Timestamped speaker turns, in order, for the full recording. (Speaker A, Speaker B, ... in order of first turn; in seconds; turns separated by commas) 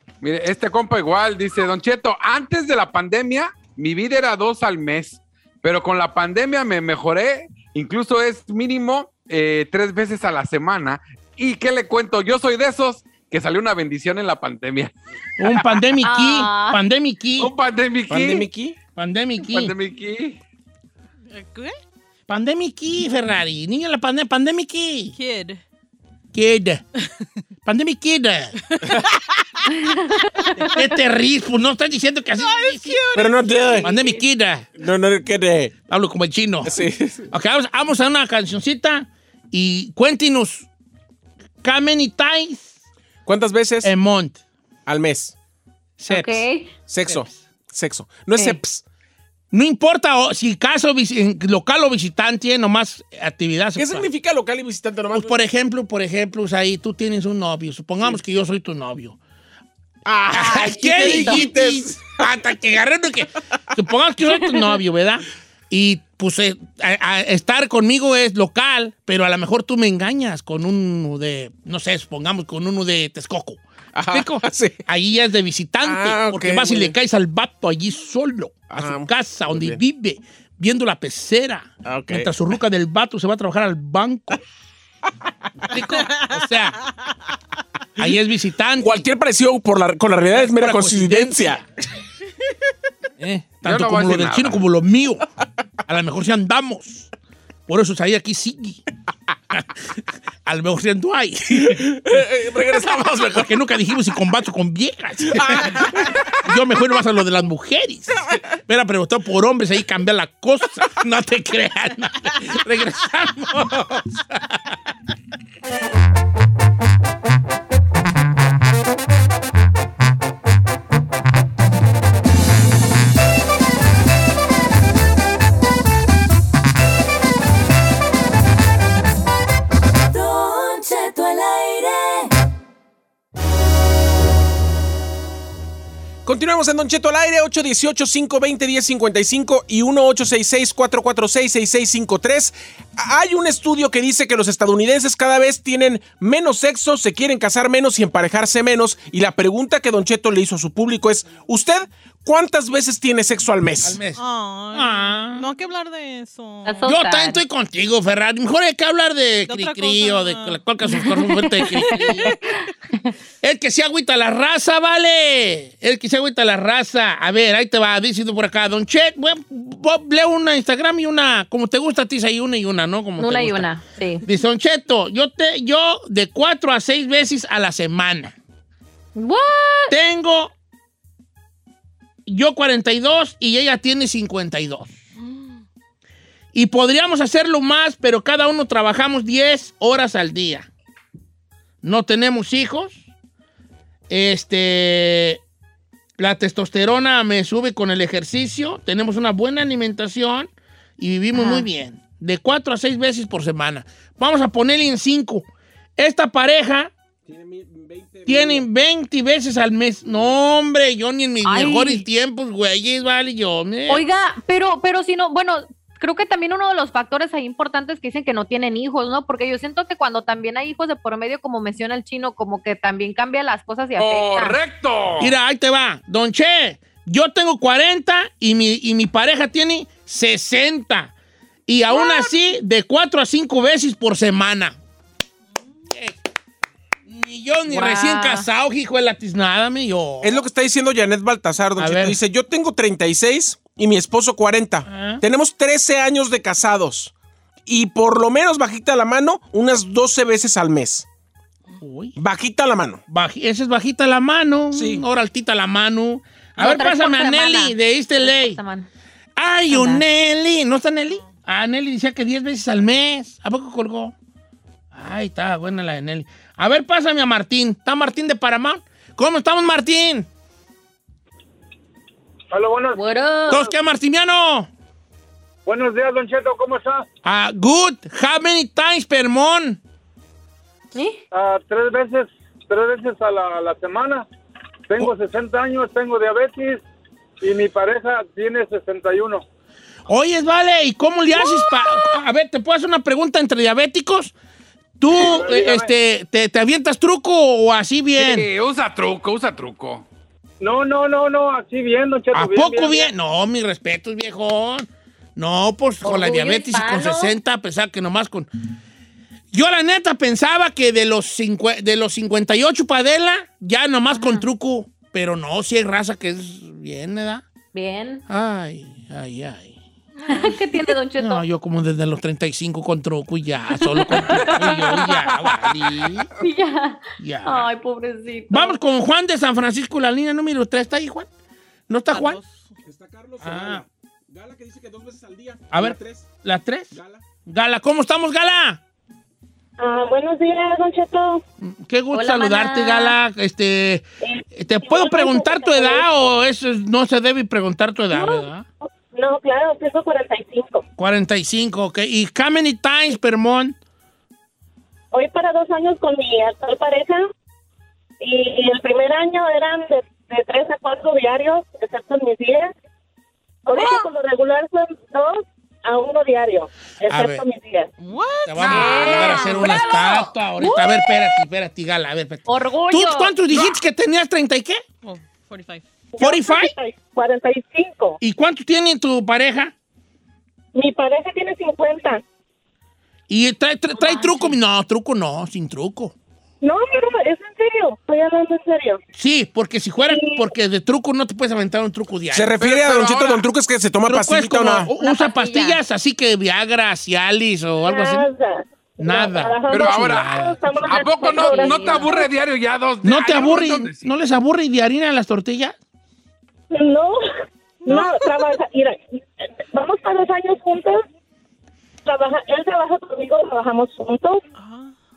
Speaker A: 0.2-15.8, Speaker B: 15.4-17.5, Speaker C: 16.0-16.8, Speaker A: 17.4-18.5, Speaker D: 18.1-18.8, Speaker B: 18.9-19.7, Speaker A: 19.4-20.4, Speaker E: 21.3-21.7, Speaker B: 22.3-25.1, Speaker E: 25.1-25.6, Speaker B: 26.3-26.8, Speaker B: 27.6-28.6, Speaker E: 28.7-29.6, Speaker E: 30.4-30.7, Speaker B: 30.7-33.0, Speaker E: 32.4-34.2, Speaker D: 33.1-33.9, Speaker B: 33.8-34.7, Speaker D: 34.8-35.7, Speaker B: 35.9-36.8, Speaker D: 36.6-37.3, Speaker B: 37.3-40.7, Speaker B: 41.6-42.7, Speaker D: 43.2-43.9, Speaker B: 43.8-44.4, Speaker D: 44.9-45.3, Speaker B: 46.0-46.4, Speaker C: 46.1-46.7, Speaker D: 46.9-48.8, Speaker B: 49.5-54.1, Speaker D: 53.8-55.4, Speaker B: 55.1-59.1, Speaker D: 60.0-62.2, Speaker B: 60.3-84.4, Speaker C: 60.4-61.5, Speaker D: 73.9-74.8, Speaker D: 75.8-77.0, Speaker D: 78.7-79.8, Speaker D: 81.8-82.3, Speaker B: 85.7-86.8, Speaker E: 86.0-86.4, Speaker B: 88.0-89.1, Speaker D: 88.8-91.6, Speaker B: 90.3-91.6, Speaker B: 93.2-95.2, Speaker A: 93.6-94.6, Speaker B: 95.9-97.1, Speaker B: 97.7-98.8, Speaker B: 99.5-99.8, Speaker B: 100.5-102.2, Speaker D: 101.5-103.5, Speaker B: 103.3-114.8, Speaker D: 105.3-106.3, Speaker F: 130.1-132.3, Speaker D: 136.2-154.0, Speaker B: 153.8-154.2, Speaker E: 154.2-156.9, Speaker B: 154.7-155.4, Speaker C: 156.7-157.4, Speaker B: 156.8-162.3, Speaker E: 159.5-160.6, Speaker C: 160.9-161.3, Speaker E: 161.6-162.7, Speaker B: 163.4-173.7, Speaker C: 173.2-174.2, Speaker B: 174.2-178.3, Speaker C: 179.1-179.9, Speaker B: 179.9-180.5, Speaker B: 182.2-184.9, Speaker E: 185.2-185.6, Speaker B: 186.5-190.7, Speaker B: 191.8-193.0, Speaker B: 194.1-195.4, Speaker B: 196.2-205.4, Speaker C: 201.3-201.7, Speaker B: 206.0-206.9, Speaker D: 207.3-208.7, Speaker B: 208.3-214.0, Speaker C: 211.4-212.0, Speaker C: 213.9-224.6, Speaker A: 224.0-225.3, Speaker B: 225.2-231.1, Speaker B: 231.7-234.8, Speaker E: 232.0-232.2, Speaker B: 235.9-236.2, Speaker B: 237.1-240.4, Speaker C: 237.7-238.5, Speaker D: 240.2-247.1, Speaker B: 241.8-242.2, Speaker B: 244.9-245.2, Speaker D: 247.7-251.1, Speaker B: 251.8-252.2, Speaker D: 252.2-253.0, Speaker B: 253.1-258.6, Speaker D: 254.7-255.0, Speaker C: 256.6-258.9, Speaker B: 259.4-264.1, Speaker C: 259.7-260.0, Speaker B: 264.9-270.3, Speaker G: 272.5-273.0, Speaker C: 272.9-273.6, Speaker B: 273.5-274.7, Speaker G: 275.6-277.0, Speaker B: 277.2-279.8, Speaker C: 280.9-281.2, Speaker G: 281.3-284.2, Speaker G: 284.9-286.8, Speaker G: 287.4-289.4, Speaker B: 290.1-294.3, Speaker B: 295.0-298.5, Speaker G: 295.2-295.9, Speaker A: 298.2-300.1, Speaker G: 300.6-303.1, Speaker B: 302.3-308.5, Speaker C: 306.0-307.3, Speaker B: 309.5-317.4, Speaker C: 314.1-314.4, Speaker C: 317.7-318.2, Speaker B: 318.3-319.8, Speaker E: 320.2-320.5, Speaker C: 320.3-321.4, Speaker B: 321.2-326.3, Speaker C: 323.8-325.0, Speaker A: 324.6-326.3, Speaker C: 326.4-328.8, Speaker B: 327.2-327.7, Speaker B: 328.5-331.3, Speaker B: 331.9-332.4, Speaker E: 332.1-332.7, Speaker D: 332.8-336.3, Speaker B: 333.4-333.8, Speaker B: 335.7-338.8, Speaker D: 336.9-337.2, Speaker H: 339.8-341.4, Speaker B: 341.6-348.6, Speaker C: 342.1-343.2, Speaker H: 344.2-346.3, Speaker H: 348.1-350.8, Speaker B: 351.0-353.8, Speaker H: 355.1-357.2, Speaker H: 358.2-362.7, Speaker H: 363.6-367.9, Speaker B: 367.1-367.4, Speaker E: 368.0-369.5, Speaker B: 368.4-374.8, Speaker A: 368.6-369.4, Speaker C: 368.6-371.4, Speaker C: 372.4-373.3, Speaker E: 375.0-375.8, Speaker H: 376.1-378.2, Speaker B: 376.2-376.7, Speaker B: 378.2-379.7, Speaker H: 380.7-382.2, Speaker B: 383.3-386.1, Speaker H: 386.6-389.0, Speaker B: 389.1-392.5, Speaker H: 390.0-390.4, Speaker D: 392.3-394.9, Speaker A: 392.6-393.4, Speaker B: 394.1-398.3, Speaker C: 394.9-395.8, Speaker H: 397.8-402.3, Speaker B: 399.0-400.6, Speaker A: 399.7-404.1, Speaker C: 401.3-402.1, Speaker B: 403.0-405.7, Speaker H: 406.7-407.2, Speaker E: 407.8-408.3, Speaker H: 407.8-409.0, Speaker H: 409.6-411.0, Speaker H: 412.0-414.4, Speaker E: 414.6-414.9